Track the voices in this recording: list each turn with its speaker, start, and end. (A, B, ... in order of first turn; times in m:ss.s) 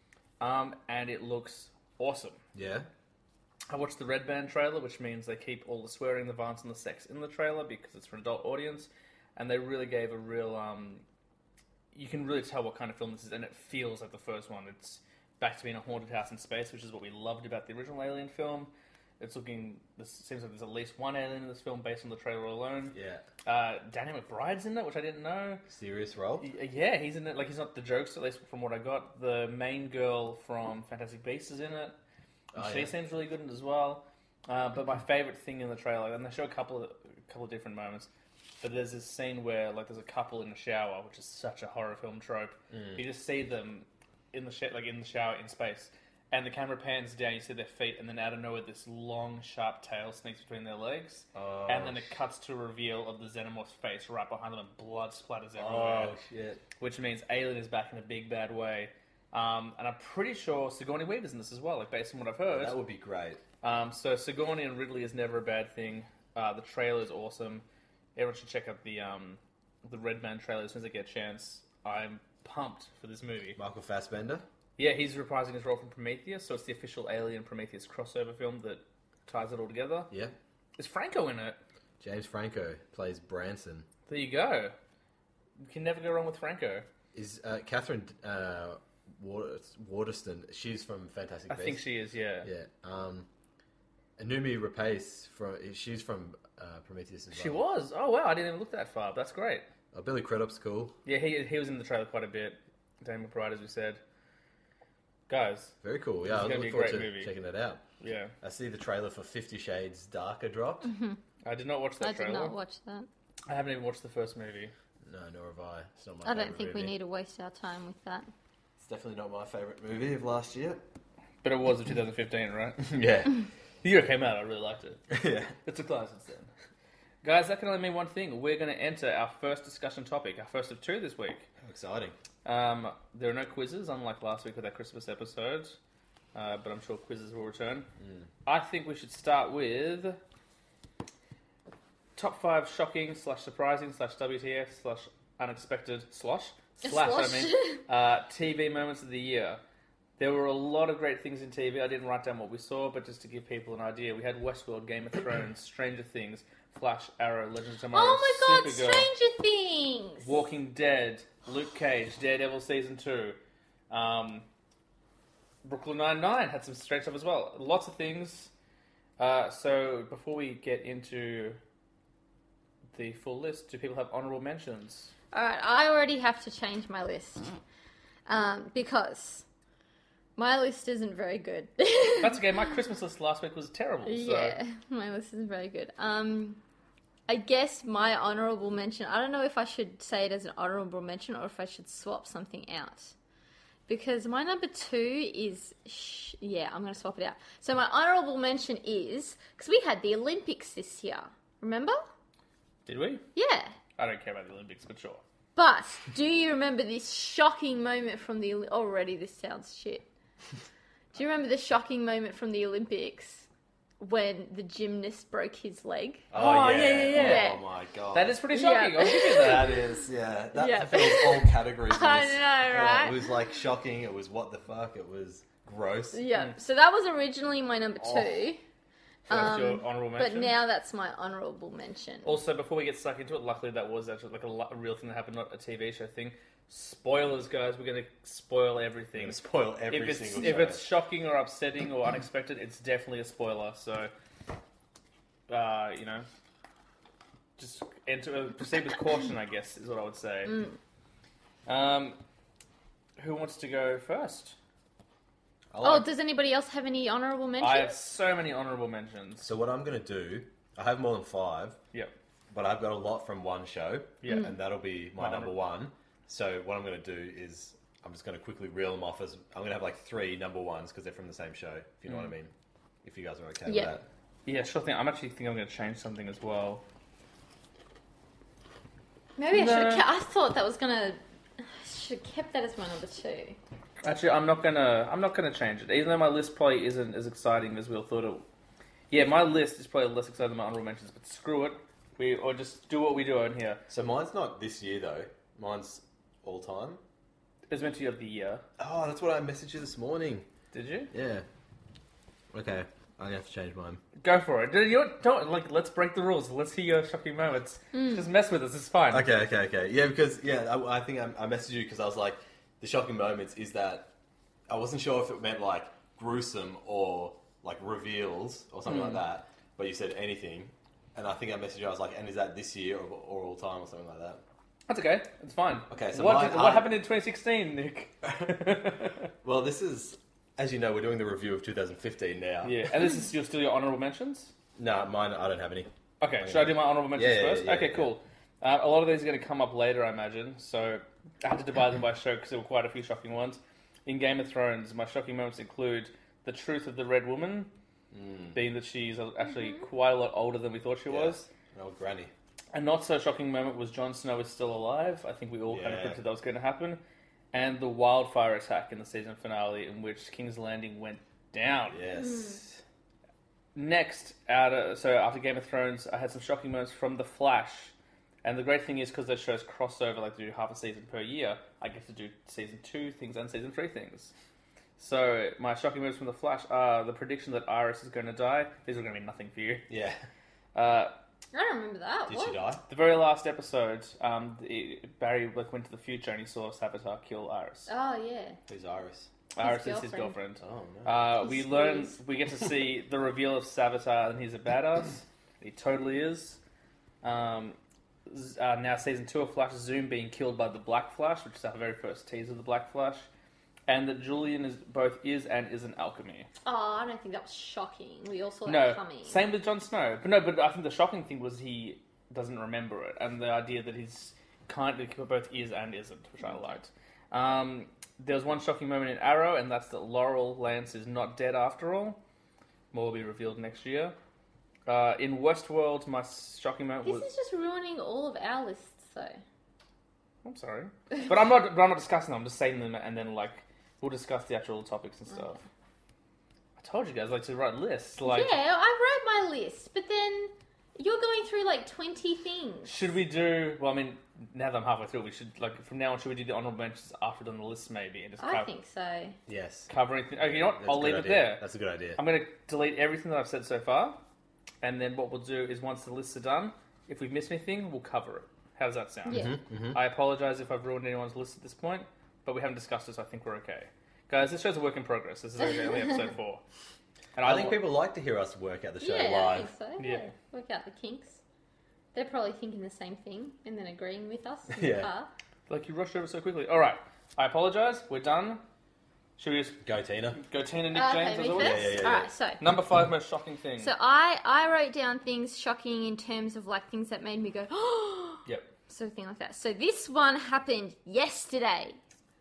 0:00.4-0:02.4 A
0:02.5-0:02.9 B
0:03.7-0:11.0 A
0:11.9-0:22.9 A
0:22.9-0:23.2 B
0:23.4-0:25.6 A
0:25.7-0:26.5 B
0:26.4-0:32.0 A
0:32.5-0:32.9 B
0:32.5-0:38.1 A
0:38.6-0:56.2 A
0:42.7-0:43.0 B
0:51.3-0:52.1 B
0:55.6-0:56.6 B
0:56.8-1:02.8 A
1:02.5-1:03.4 B
1:03.6-1:13.6 A
1:13.6-1:14.4 B
1:14.8-1:20.1 A
1:20.8-1:21.6 A
1:22.0-1:23.9 B
1:24.1-1:24.7 A
1:25.6-1:26.9 A
1:27.1-1:31.8 B
1:31.5-1:32.5 A
1:32.4-1:33.3 B
1:34.2-1:37.6 B
1:37.3-1:39.7 A
1:39.9-1:41.0 B
1:41.0-1:44.0 A
1:45.3-1:45.7 A
1:45.8-1:47.8 B
1:46.3-1:47.3 A
1:48.0-1:48.3 A
1:48.4-1:50.9 B
1:50.8-1:51.2 C
1:51.4-1:52.5 A
1:52.0-1:53.1 C
1:53.5-1:54.7 A
1:55.0-1:56.9 B
1:56.2-1:58.3 C
1:58.8-2:00.8 B
2:01.4-2:03.0 A
2:02.8-2:03.4 B
2:03.8-2:06.5 A
2:05.1-2:05.6 B
2:07.2-2:11.5 A
2:11.6-2:12.1 B
2:12.4-2:15.8 A
2:16.3-2:17.9 A
2:18.0-2:18.3 B
2:18.4-2:20.2 A
2:22.2-2:29.6 A
2:26.8-2:27.8 C
2:30.2-2:39.1 A
2:37.9-2:40.3 C
2:40.2-2:43.4 A
2:43.9-2:44.5 A
2:45.6-2:48.5 A
2:49.2-2:51.6 A
2:52.9-2:55.1 A
2:55.3-2:57.5 C
2:58.3-2:59.4 C
3:00.4-3:02.4 C
3:02.2-3:04.6 A
3:04.0-3:06.6 C
3:07.3-3:13.1 C
3:13.9-3:22.0 C
3:22.8-3:23.2 A
3:23.3-3:23.8 C
3:24.0-3:25.2 A
3:25.6-3:30.1 C
3:31.1-3:33.5 C
3:34.0-3:37.6 C
3:36.3-3:38.4 B
3:36.8-3:37.5 A
3:38.1-3:39.6 A
3:38.5-3:39.8 C
3:39.3-3:46.2 B
3:40.5-3:43.3 C
3:46.1-3:48.6 C
3:49.3-3:50.6 A
3:49.3-3:52.3 C
3:52.2-4:04.1 A
3:59.1-4:00.9 B
4:05.5-4:06.3 A
4:07.6-4:10.6 A
4:10.4-4:10.8 C
4:11.6-4:12.2 A
4:13.2-4:14.6 A
4:15.7-4:16.1 B
4:15.8-4:18.0 C
4:17.6-4:19.5 A
4:19.4-4:21.8 B
4:22.5-4:32.5 B
4:24.2-4:24.5 A
4:25.2-4:25.6 A
4:33.0-4:34.0 B
4:33.6-4:33.9 C
4:34.4-4:36.8 A
4:39.4-4:43.6 C
4:39.5-4:40.1 A
4:44.0-4:48.4 A
4:49.1-4:53.8 A
4:53.9-4:57.0 B
4:57.7-4:58.6 A
4:58.8-5:00.5 B
5:00.7-5:01.1 A
5:01.1-5:01.4 B
5:02.5-5:04.0 B
5:04.2-5:09.3 A
5:07.9-5:08.2 C
5:09.1-5:14.1 B
5:14.7-5:24.4 B
5:18.9-5:19.2 A
5:24.9-5:29.3 A
5:25.9-5:26.9 B
5:29.4-5:32.8 B
5:32.6-5:34.5 A
5:34.8-5:35.9 B
5:36.2-5:47.7 A
5:36.4-5:38.1 B
5:48.1-5:48.6 B
5:48.5-5:51.4 A
5:51.1-5:52.3 B
5:52.7-5:57.0 A
5:55.7-5:56.2 B
5:57.5-6:02.0 A
6:01.9-6:02.8 B
6:02.2-6:02.6 C
6:03.7-6:07.9 A
6:08.4-6:14.3 A
6:15.0-6:19.9 A
6:19.9-6:20.2 B
6:20.7-6:21.1 A
6:21.5-6:22.6 C
6:22.3-6:22.8 B
6:22.9-6:27.9 A
6:27.9-6:28.6 C
6:28.7-6:29.3 B
6:29.5-6:36.6 A
6:29.6-6:30.4 C
6:30.6-6:31.3 B
6:31.4-6:32.2 C
6:37.2-6:43.3 A
6:43.9-6:46.5 A
6:46.6-6:49.4 C
6:48.6-7:02.2 A
7:02.9-7:04.2 A
7:04.8-7:07.3 A
7:07.0-7:09.4 C
7:10.4-7:15.6 A
7:15.3-7:15.6 C
7:16.8-7:18.6 A
7:18.2-7:22.9 C
7:22.8-7:28.7 A
7:28.4-7:29.4 C
7:29.5-7:32.2 B
7:29.9-7:31.6 A
7:32.2-7:34.2 A
7:34.8-7:46.6 A
7:39.3-7:39.6 C
7:39.3-7:40.0 B
7:47.4-7:47.8 A
7:47.4-7:49.7 B
7:49.0-7:51.4 C
7:50.0-7:50.3 A
7:52.1-7:55.3 C
7:54.7-7:55.1 B
7:55.7-7:58.6 A
7:59.4-7:59.8 A
7:59.8-8:00.4 B
8:00.3-8:02.0 A
8:00.9-8:02.6 C
8:01.6-8:02.3 B
8:02.6-8:03.9 A
8:03.8-8:12.0 C